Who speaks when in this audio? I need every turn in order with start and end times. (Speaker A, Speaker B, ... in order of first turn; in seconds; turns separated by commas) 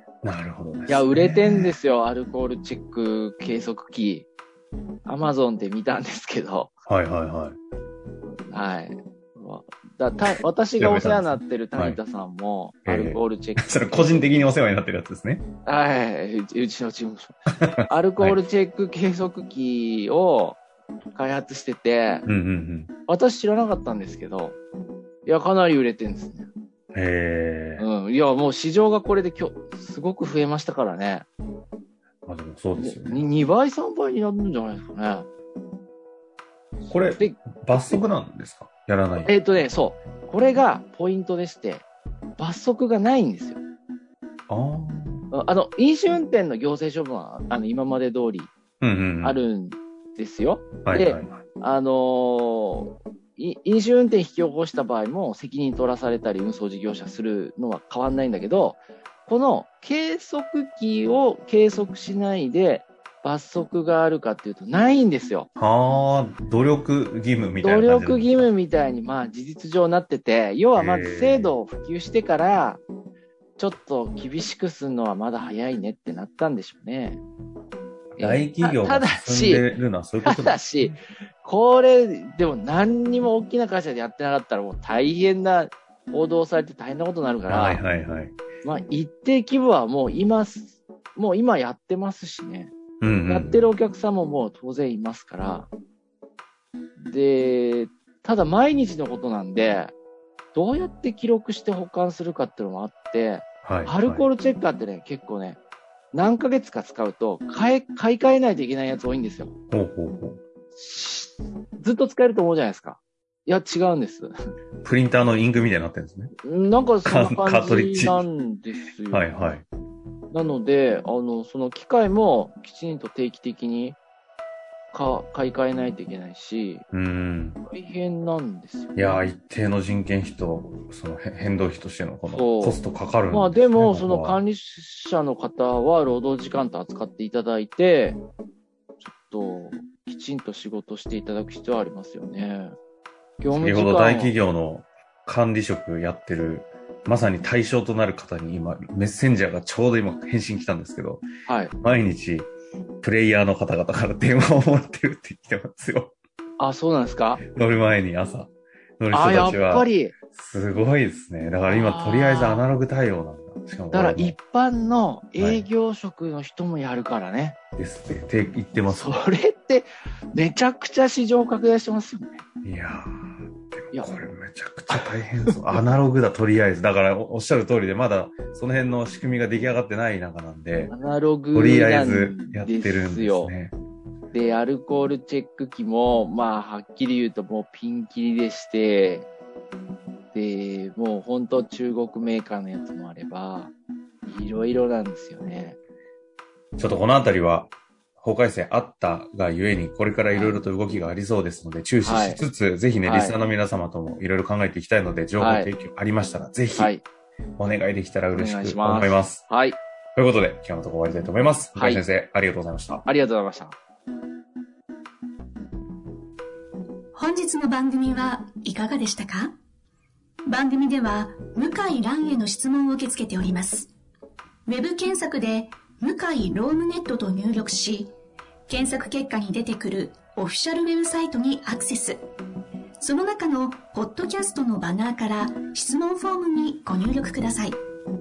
Speaker A: 0.2-1.8, Speaker B: 0.9-4.3, Speaker B: 5.0-6.7, Speaker A: 6.9-7.6, Speaker B: 8.5-14.2, Speaker A: 10.8-12.0, Speaker A: 12.9-15.4, Speaker B: 15.7-20.6, Speaker A: 17.6-18.4, Speaker B: 21.1-22.2, Speaker A: 22.3-22.9, Speaker B: 23.1-24.6, Speaker B: 25.2-26.5, Speaker A: 26.9-27.9, Speaker B: 27.8-31.3, Speaker A: 32.3-33.2, Speaker B: 32.8-35.3, Speaker A: 36.9-39.3, Speaker B: 37.2-38.0, Speaker B: 39.2-41.9, Speaker B: 42.4-43.6, Speaker A: 44.5-45.2, Speaker B: 45.3-48.5, Speaker A: 48.8-49.4, Speaker B: 49.2-65.5, Speaker A: 50.9-51.4, Speaker A: 65.6-68.4, Speaker B: 67.6-72.8, Speaker A: 70.8-71.5, Speaker B: 73.6-77.2, Speaker A: 78.2-81.0, Speaker B: 78.2-79.7, Speaker B: 80.2-87.8, Speaker A: 87.5-88.4, Speaker B: 88.6-92.7, Speaker A: 93.0-93.7, Speaker B: 93.3-95.7, Speaker B: 97.0-99.9, Speaker B: 100.5-105.6, Speaker A: 103.6-104.3, Speaker B: 106.1-109.5, Speaker A: 109.7-110.4, Speaker B: 110.7-114.3, Speaker A: 114.8-116.3, Speaker B: 116.4-119.3, Speaker A: 117.0-118.2, Speaker A: 119.1-119.7, Speaker B: 120.3-124.0, Speaker B: 124.9-126.8, Speaker A: 126.9-127.6, Speaker B: 127.7-129.2, Speaker A: 128.9-134.4, Speaker B: 132.3-138.2, Speaker B: 139.0-142.8, Speaker B: 143.4-144.3, Speaker A: 143.5-151.2, Speaker B: 151.5-151.7, Speaker A: 151.8-152.5, Speaker A: 153.0-156.2, Speaker B: 156.6-157.4, Speaker A: 157.5-164.4, Speaker B: 159.1-160.2, Speaker B: 161.7-162.7, Speaker B: 163.9-167.6, Speaker A: 165.4-165.7, Speaker A: 167.8-169.2, Speaker B: 168.9-172.4, Speaker A: 172.6-173.1, Speaker A: 173.7-180.9, Speaker B: 174.9-175.5, Speaker B: 180.9-183.5, Speaker A: 181.5-183.8, Speaker B: 184.3-189.3, Speaker B: 190.3-193.7, Speaker B: 194.3-195.8, Speaker A: 196.8-206.9, Speaker B: 200.3-200.6, Speaker B: 202.0-202.4, Speaker B: 203.0-203.4, Speaker B: 205.4-205.7, Speaker B: 206.8-207.0, Speaker A: 207.6-209.4, Speaker B: 208.3-209.8, Speaker A: 210.2-213.1, Speaker B: 211.7-212.0, Speaker B: 213.1-213.8, Speaker C: 217.1-219.6, Speaker C: 220.5-223.9, Speaker C: 224.7-228.1, Speaker C: 228.7-232.2, Speaker C: 233.0-237.8